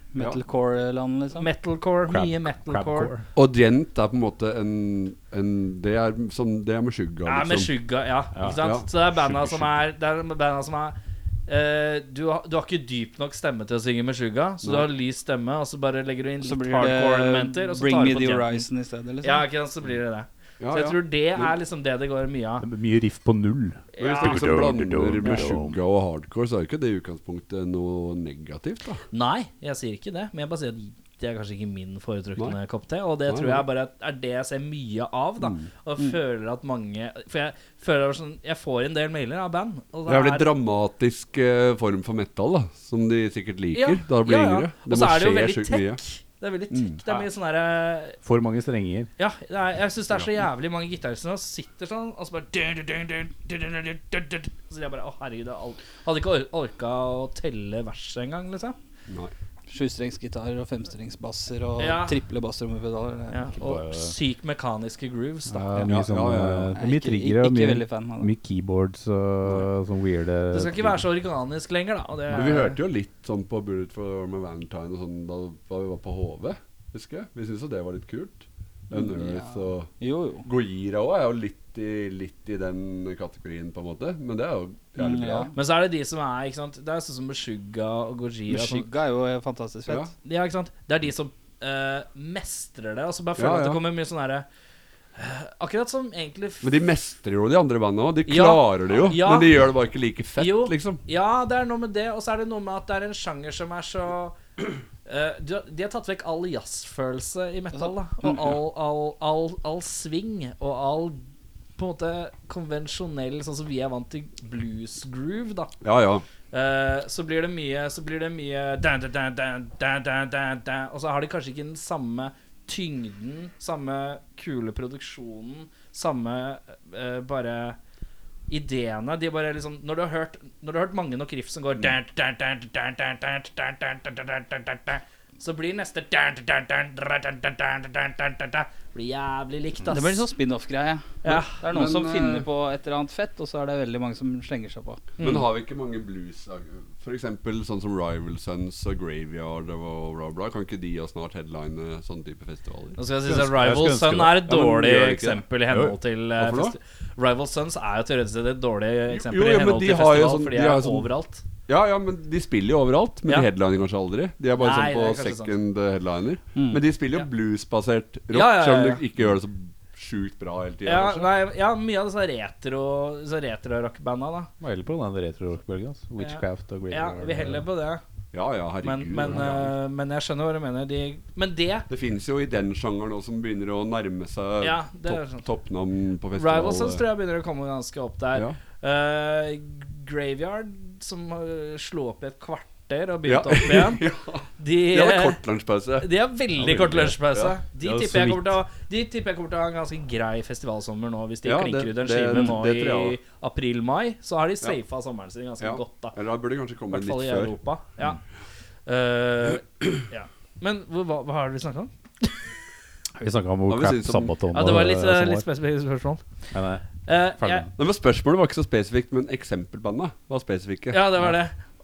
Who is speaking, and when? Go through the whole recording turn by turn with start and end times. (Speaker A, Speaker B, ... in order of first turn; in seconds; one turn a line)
Speaker A: 0.1-1.5
Speaker B: 1.4-3.1
Speaker C: 2.1-3.3
Speaker D: 3.3-7.7
Speaker B: 7.2-10.9
Speaker C: 8.3-8.6
Speaker D: 8.5-9.7
Speaker B: 11.5-18.7
Speaker D: 14.6-14.9
Speaker A: 16.4-19.4
Speaker B: 19.2-22.6
Speaker D: 20.6-21.5
Speaker C: 22.6-25.8
Speaker B: 23.9-24.6
Speaker D: 24.0-29.0
Speaker B: 29.1-40.5
Speaker D: 33.3-33.6
Speaker D: 35.4-35.7
Speaker D: 40.1-46.0
Speaker B: 43.7-48.2
Speaker D: 46.7-47.0
Speaker C: 48.2-49.1
Speaker B: 49.2-58.8
Speaker A: 59.7-63.5
Speaker B: 61.8-62.2
Speaker B: 63.3-65.9
Speaker C: 63.6-64.1
Speaker C: 65.5-71.0
Speaker D: 65.8-66.7
Speaker A: 66.7-68.3
Speaker B: 70.5-72.8
Speaker D: 72.3-79.9
Speaker A: 78.9-80.5
Speaker D: 80.4-85.5
Speaker A: 85.0-85.5
Speaker B: 85.5-88.9
Speaker A: 88.5-90.1
Speaker B: 90.2-94.5
Speaker D: 93.4-93.8
Speaker B: 95.2-96.7
Speaker D: 96.6-101.0
Speaker B: 98.3-99.5
Speaker B: 100.4-104.4
Speaker B: 105.0-111.2
Speaker A: 107.7-108.3
Speaker B: 111.8-115.7
Speaker D: 115.8-116.2
Speaker B: 116.5-127.8
Speaker B: 128.5-140.2
Speaker A: 139.9-145.1
Speaker B: 141.2-141.6
Speaker D: 141.3-142.5
Speaker B: 145.2-145.4
Speaker D: 145.2-153.0
Speaker B: 153.0-161.4
Speaker C: 153.2-154.6
Speaker D: 154.5-155.4
Speaker C: 155.7-156.0
Speaker D: 156.4-156.8
Speaker D: 159.1-161.1
Speaker D: 161.7-171.3
Speaker B: 164.6-165.6
Speaker A: 166.5-166.8
Speaker B: 168.3-169.0
Speaker B: 170.8-174.5
Speaker C: 174.6-177.6
Speaker B: 176.2-178.0
Speaker D: 178.3-179.7
Speaker B: 178.8-181.9
Speaker D: 181.9-187.0
Speaker B: 184.6-185.4
Speaker B: 186.3-194.1
Speaker D: 193.2-196.1
Speaker B: 194.6-195.4
Speaker B: 196.0-206.2
Speaker C: 196.6-197.2
Speaker C: 197.8-198.6
Speaker D: 201.4-203.2
Speaker D: 205.6-207.6
Speaker B: 206.9-208.2
Speaker B: 208.8-212.3
Speaker C: 213.2-215.4
Speaker D: 213.7-214.3
Speaker B: 214.5-216.2
Speaker C: 216.5-217.7
Speaker B: 217.1-217.7
Speaker D: 217.8-221.0
Speaker B: 220.9-221.6